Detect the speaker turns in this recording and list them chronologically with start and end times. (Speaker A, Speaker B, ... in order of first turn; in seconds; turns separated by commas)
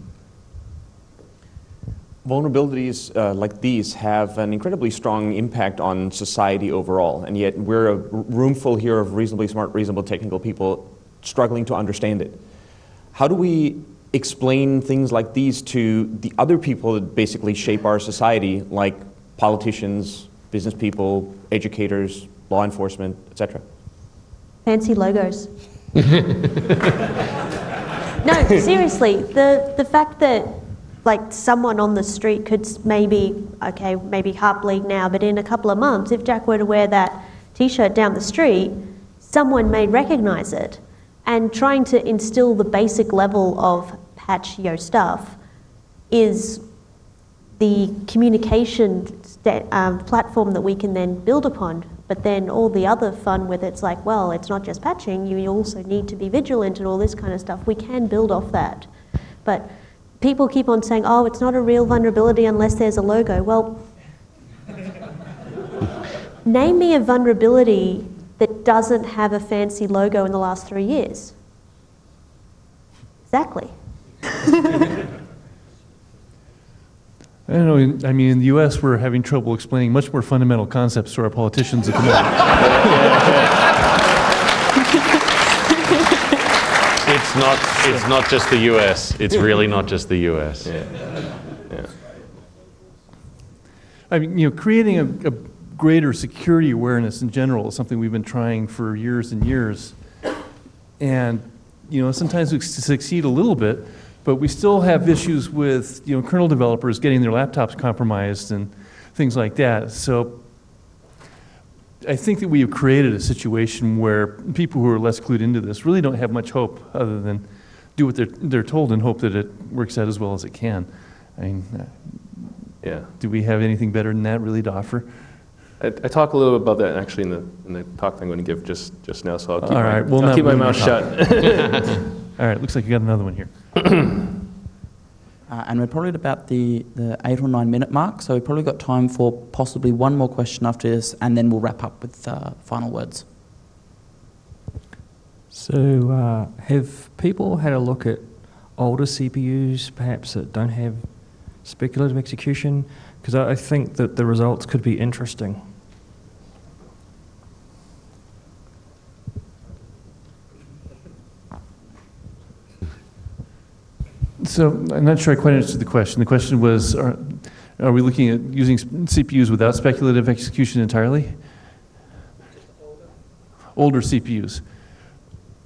Speaker A: 2.2-12.4, Speaker A: 13.1-23.6, Speaker B: 24.6-25.5, Speaker B: 28.2-45.4, Speaker B: 46.1-46.6, Speaker B: 47.6-58.9, Speaker B: 59.4-63.9, Speaker B: 66.4-71.3, Speaker B: 73.3-73.7, Speaker C: 77.5-82.5, Speaker D: 82.8-83.4, Speaker E: 87.0-90.7, Speaker D: 90.6-91.0, Speaker C: 94.1-100.2, Speaker C: 101.0-110.9, Speaker C: 112.0-125.6, Speaker D: 122.8-123.2, Speaker D: 125.8-132.1, Speaker C: 129.6-131.6, Speaker C: 132.3-133.5, Speaker F: 135.5-143.2, Speaker G: 145.5-155.8, Speaker C: 164.4-171.7, Speaker C: 173.7-174.7